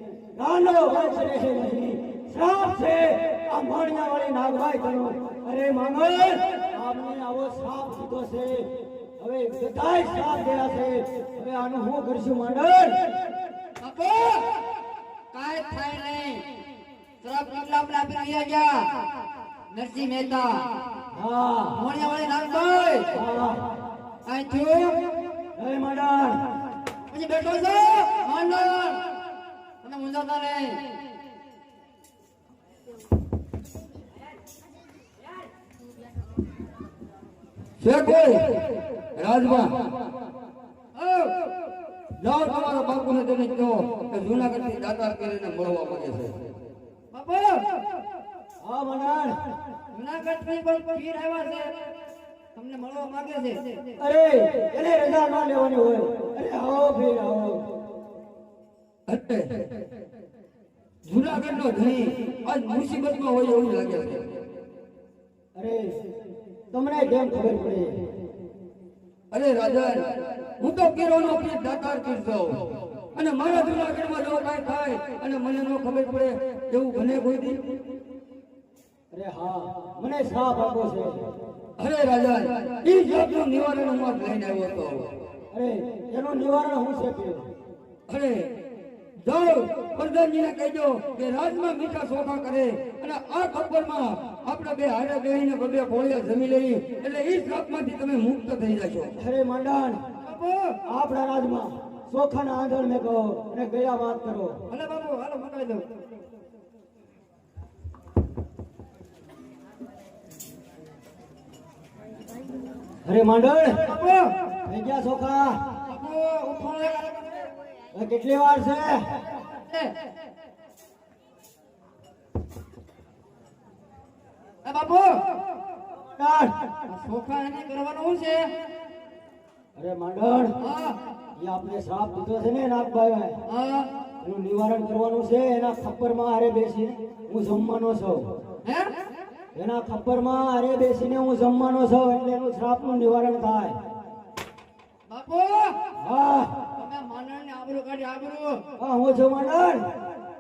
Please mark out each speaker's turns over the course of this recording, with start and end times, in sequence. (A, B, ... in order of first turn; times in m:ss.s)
0:00.4-0:08.6 A
0:09.2-0:13.0 A
0:13.8-0:14.6 B
0:15.3-0:16.4 B
0:17.2-0:18.9 B
0:19.7-0:20.7 B
0:21.1-0:21.8 A
0:21.7-0:23.1 B
0:23.2-0:23.6 A
0:24.3-0:25.0 B
0:25.6-0:26.4 A
0:27.1-0:29.0 B
0:29.8-0:30.8 B
0:37.8-0:38.6 C
0:39.2-0:39.9 C
0:41.0-0:41.4 B
0:42.2-0:46.4 C
0:47.1-0:47.6 B
0:48.6-0:49.4 A
0:49.9-0:51.7 B
0:52.6-0:53.8 B
0:54.0-0:57.6 A
0:59.1-0:59.5 C
1:01.0-1:04.3 C
1:05.6-1:06.0 A
1:06.7-1:08.0 A
1:09.3-1:10.1 C
1:10.6-1:12.6 C
1:13.2-1:17.7 C
1:19.1-1:21.3 A
1:21.8-1:25.1 C
1:25.5-1:27.5 A
1:28.1-1:28.5 C
1:29.2-1:39.1 C
1:39.2-1:40.0 A
1:40.2-1:40.8 B
1:40.9-1:44.6 A
1:44.7-1:45.9 B
1:53.0-1:53.8 A
1:53.8-1:54.3 B
1:54.6-1:55.6 A
1:55.9-1:57.5 B
1:57.9-1:59.0 A
1:59.6-1:59.9 B
2:04.6-2:05.2 B
2:06.0-2:06.5 A
2:06.9-2:08.4 B
2:09.8-2:10.5 A
2:10.6-2:11.0 B
2:11.4-2:13.4 A
2:13.5-2:13.9 B
2:14.2-2:18.3 A
2:18.6-2:18.9 B
2:19.6-2:23.8 A
2:25.1-2:25.8 B
2:26.0-2:26.5 A
2:26.8-2:28.6 B
2:28.8-2:29.8 A